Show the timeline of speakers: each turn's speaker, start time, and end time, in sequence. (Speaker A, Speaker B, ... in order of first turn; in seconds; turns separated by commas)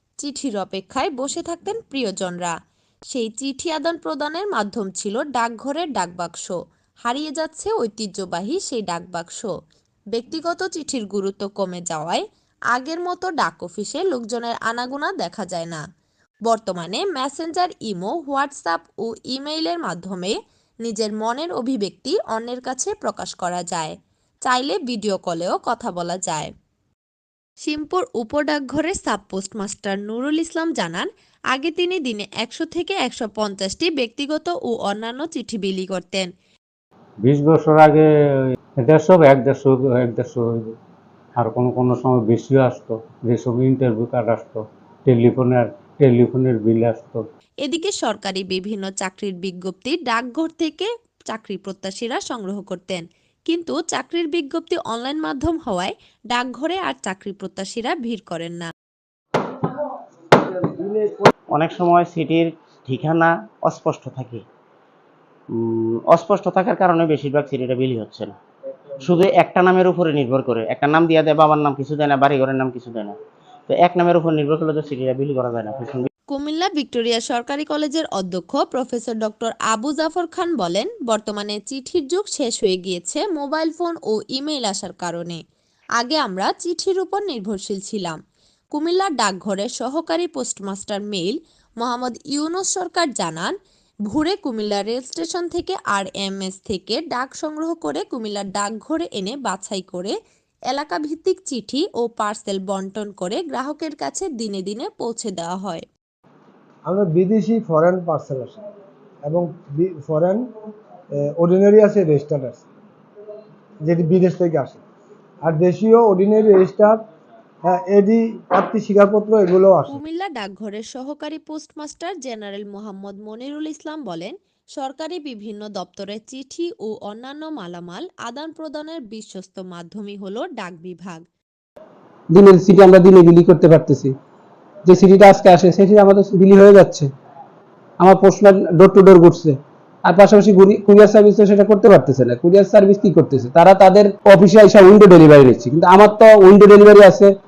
Speaker A: 0.2-2.5, Speaker A: 3.1-9.5, Speaker A: 10.1-15.8, Speaker A: 16.5-23.9, Speaker A: 24.5-26.5, Speaker A: 27.6-36.3, Speaker B: 37.2-38.1, Speaker B: 38.8-40.8, Speaker B: 41.4-47.2, Speaker A: 47.6-58.7, Speaker C: 60.7-61.3, Speaker D: 61.5-64.4, Speaker D: 65.5-68.4, Speaker D: 69.0-76.1, Speaker A: 76.3-85.4, Speaker A: 86.0-88.2, Speaker A: 88.7-93.5, Speaker A: 94.1-100.2, Speaker A: 100.7-105.8, Speaker C: 106.9-108.6, Speaker C: 109.2-110.5, Speaker C: 111.2-112.7, Speaker C: 113.8-114.8, Speaker C: 115.5-117.0, Speaker C: 117.7-120.0, Speaker A: 119.9-131.2, Speaker E: 132.3-134.2, Speaker E: 134.9-137.1, Speaker E: 138.0-147.3